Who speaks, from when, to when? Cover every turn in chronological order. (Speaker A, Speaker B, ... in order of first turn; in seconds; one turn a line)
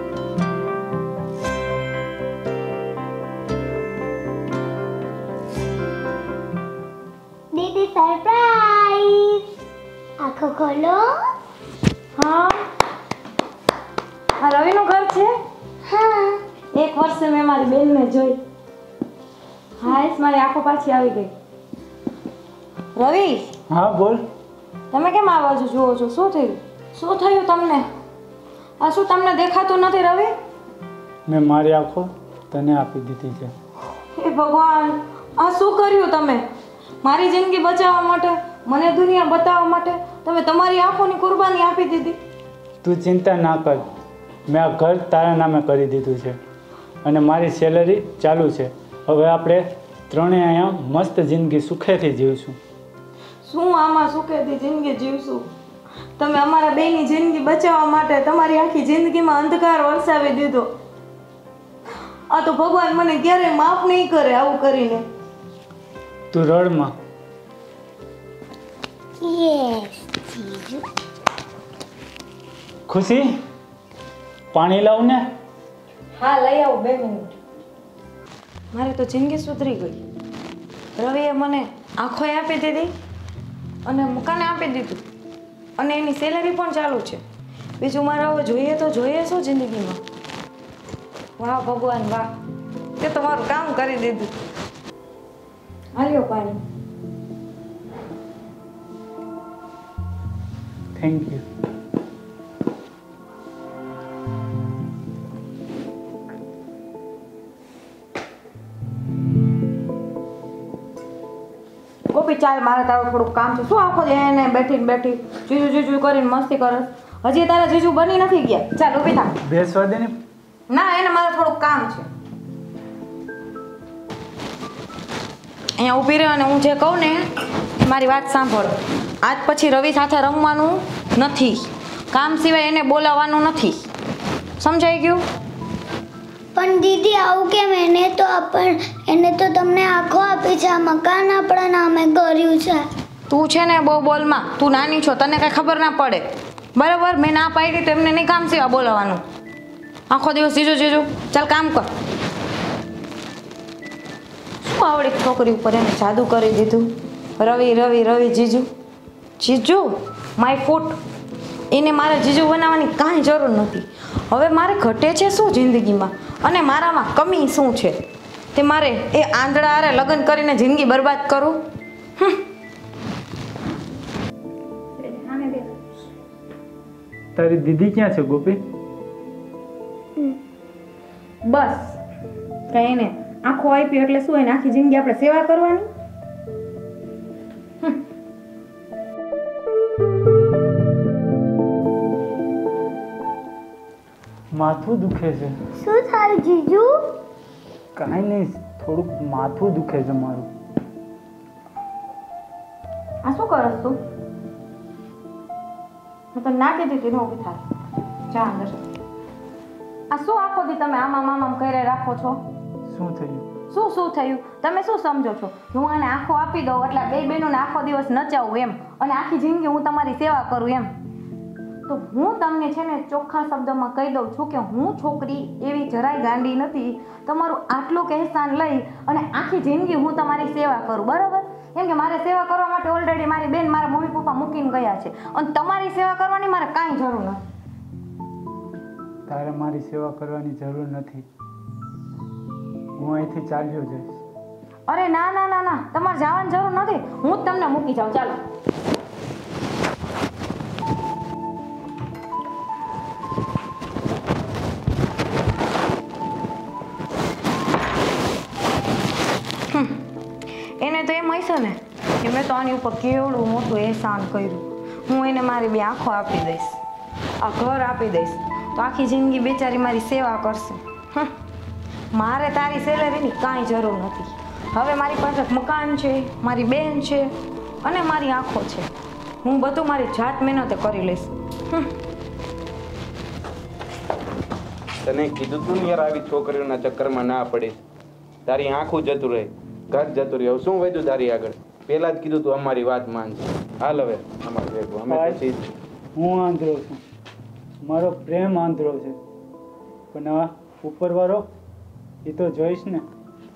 Speaker A: 7.5-9.5
Speaker A: 10.2-11.1
Speaker B: 12.2-12.6
Speaker B: 14.4-15.3
Speaker A: 15.8-16.4
Speaker B: 16.7-18.4
Speaker B: 19.8-21.3
Speaker B: 22.9-23.5
Speaker C: 23.7-24.2
Speaker B: 24.9-27.9
Speaker B: 28.8-30.3
Speaker C: 31.3-33.5
Speaker B: 34.1-36.5
Speaker B: 37.0-42.2
Speaker C: 42.8-43.9
Speaker C: 44.5-46.4
Speaker C: 47.0-52.6
Speaker B: 53.4-55.5
Speaker B: 56.2-60.7
Speaker B: 62.3-65.0
Speaker C: 66.3-66.9
Speaker A: 69.2-70.9
Speaker C: 72.9-73.3
Speaker C: 74.5-75.2
Speaker B: 76.2-77.4
Speaker B: 78.7-80.0
Speaker B: 81.0-82.9
Speaker B: 83.8-85.0
Speaker B: 85.8-87.2
Speaker B: 87.8-90.0
Speaker B: 91.4-92.3
Speaker B: 93.0-94.3
Speaker B: 96.0-96.6
Speaker C: 101.0-101.5
Speaker B: 112.1-119.3
Speaker C: 119.5-120.2
Speaker B: 120.7-122.1
Speaker B: 125.8-127.3
Speaker B: 127.8-133.8
Speaker B: 134.6-135.2
Speaker A: 136.6-142.9
Speaker B: 143.3-149.2
Speaker B: 150.1-151.9
Speaker B: 154.6-158.7
Speaker B: 159.4-161.0
Speaker B: 161.7-168.0
Speaker B: 168.5-171.6
Speaker B: 175.0-175.8
Speaker C: 177.3-178.6
Speaker B: 181.4-182.0
Speaker B: 182.7-185.9
Speaker C: 194.5-195.5
Speaker A: 195.8-197.0
Speaker C: 198.0-200.5
Speaker B: 203.2-204.0
Speaker B: 206.3-207.6
Speaker B: 208.3-208.8
Speaker B: 210.1-212.4
Speaker C: 212.9-213.4
Speaker B: 213.7-220.9
Speaker B: 221.9-237.4
Speaker C: 239.3-241.2
Speaker C: 243.0-244.2
Speaker B: 244.9-248.4
Speaker B: 259.7-260.0
Speaker B: 260.8-266.8
Speaker B: 267.4-271.3
Speaker B: 272.1-277.3
Speaker B: 277.8-278.9
Speaker B: 279.4-281.9
Speaker D: 285.1-287.8
Speaker D: 288.5-295.7
Speaker C: 295.1-295.4
Speaker C: 296.2-297.0
Speaker C: 297.8-299.2
Speaker C: 300.1-301.5
Speaker C: 302.2-303.0